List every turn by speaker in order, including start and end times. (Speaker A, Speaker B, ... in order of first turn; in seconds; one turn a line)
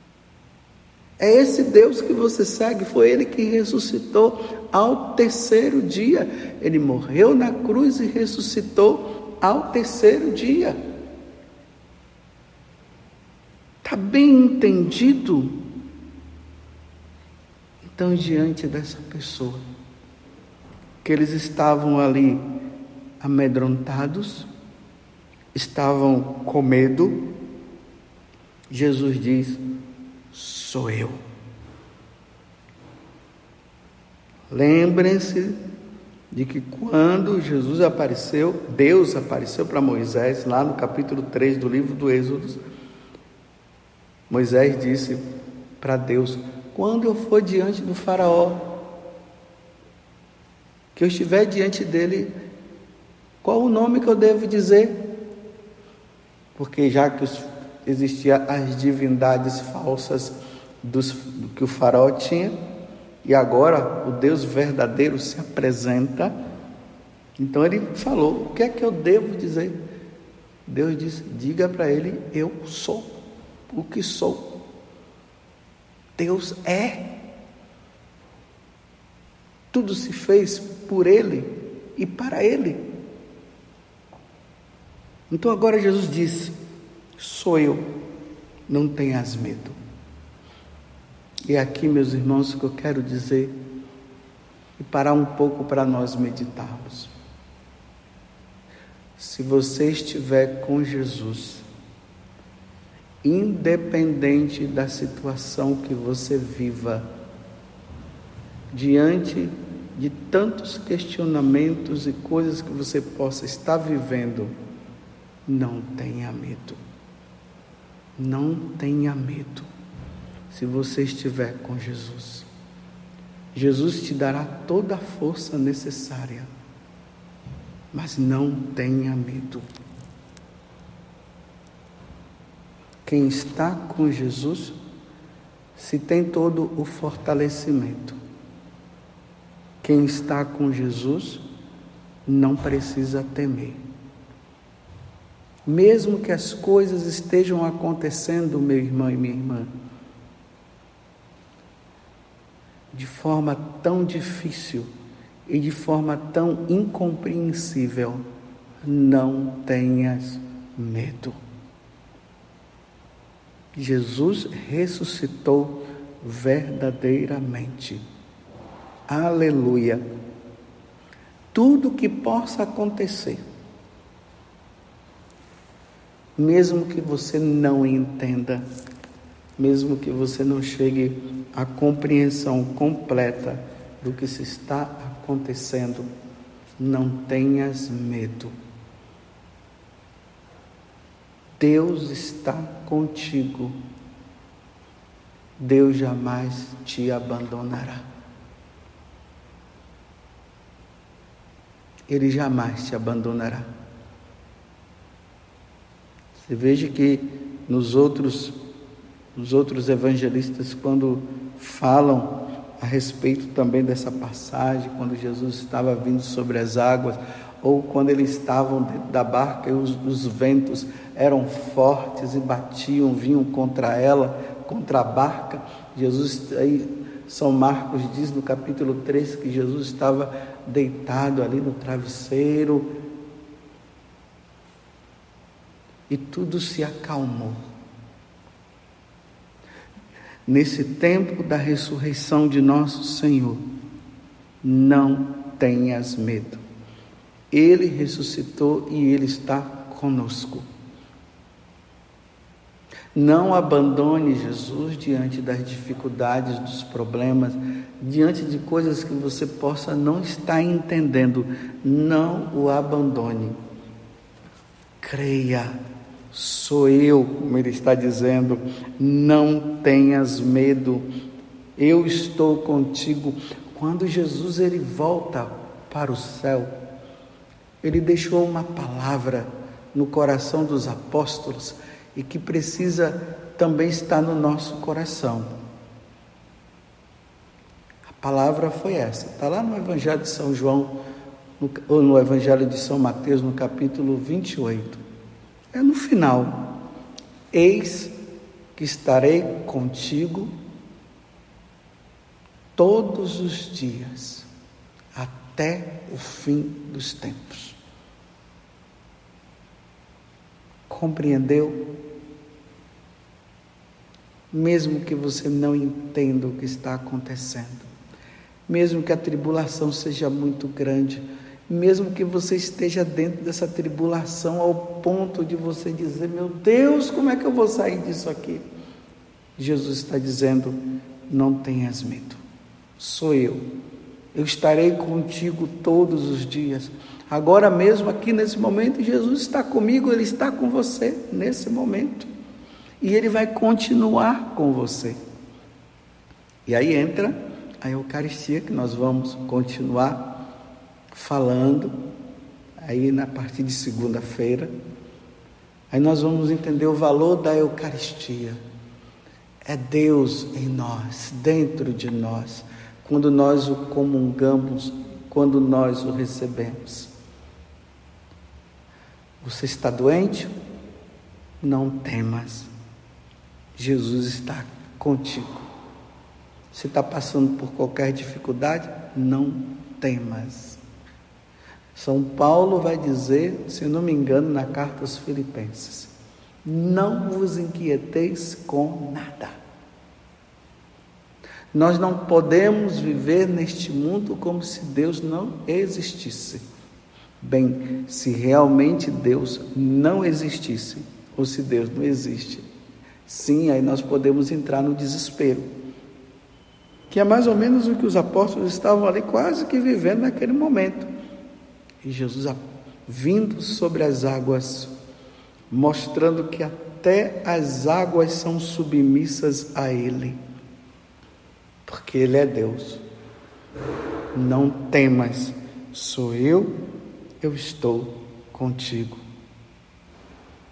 Speaker A: 1.2-10.8
Speaker A: 13.8-15.6
Speaker A: 17.8-19.6
Speaker A: 21.0-22.4
Speaker A: 23.2-24.5
Speaker A: 25.5-27.3
Speaker A: 28.7-29.6
Speaker A: 30.3-31.2
Speaker A: 34.5-35.6
Speaker A: 36.3-42.6
Speaker A: 44.3-45.2
Speaker A: 45.8-48.8
Speaker A: 50.9-52.3
Speaker A: 53.4-55.0
Speaker A: 56.5-62.5
Speaker A: 63.2-66.3
Speaker A: 67.4-69.7
Speaker A: 70.7-73.1
Speaker A: 73.7-74.6
Speaker A: 76.2-77.2
Speaker A: 79.7-82.9
Speaker A: 85.3-86.6
Speaker A: 87.2-87.9
Speaker A: 88.7-89.8
Speaker A: 91.5-93.5
Speaker A: 94.8-97.1
Speaker A: 99.2-101.7
Speaker A: 103.2-107.1
Speaker A: 108.7-114.5
Speaker A: 115.5-116.8
Speaker A: 118.2-119.7
Speaker A: 120.5-122.5
Speaker A: 123.5-126.5
Speaker A: 127.9-129.6
Speaker A: 133.0-134.8
Speaker A: 135.8-138.2
Speaker A: 139.8-141.4
Speaker A: 142.2-143.8
Speaker A: 145.7-149.7
Speaker A: 152.9-154.9
Speaker A: 155.5-158.2
Speaker A: 158.8-161.4
Speaker A: 163.7-168.0
Speaker A: 169.1-170.0
Speaker A: 171.5-173.4
Speaker A: 176.4-178.6
Speaker A: 179.6-186.1
Speaker A: 186.8-188.5
Speaker A: 191.6-193.7
Speaker A: 195.6-198.0
Speaker A: 202.1-203.7
Speaker A: 206.4-208.6
Speaker A: 209.3-232.9
Speaker A: 236.1-237.6
Speaker A: 240.5-243.6
Speaker A: 244.6-246.6
Speaker A: 247.5-250.7
Speaker A: 253.1-263.6
Speaker A: 265.0-265.8
Speaker A: 266.3-271.0
Speaker A: 271.8-276.7
Speaker A: 277.8-285.5
Speaker A: 288.1-291.0
Speaker A: 291.6-295.0
Speaker A: 295.7-296.8
Speaker A: 297.5-298.1
Speaker A: 298.8-300.5
Speaker A: 302.8-304.5
Speaker A: 305.1-307.8
Speaker A: 310.9-312.0
Speaker A: 314.5-317.9
Speaker A: 318.7-328.6
Speaker A: 329.6-332.4
Speaker A: 333.0-333.7
Speaker A: 334.3-342.3
Speaker A: 343.0-345.2
Speaker A: 346.7-350.4
Speaker A: 351.1-351.9
Speaker A: 352.8-354.7
Speaker A: 355.9-358.6
Speaker A: 359.6-367.1
Speaker A: 369.4-370.5
Speaker A: 371.6-372.7
Speaker A: 373.8-375.7
Speaker A: 376.7-380.8
Speaker A: 381.9-386.1
Speaker A: 386.6-389.5
Speaker A: 391.7-396.6
Speaker A: 397.4-402.6
Speaker A: 403.3-405.7
Speaker A: 407.1-411.1
Speaker A: 412.0-414.9
Speaker A: 415.7-420.4
Speaker A: 421.9-423.0
Speaker A: 424.3-426.8
Speaker A: 427.4-429.2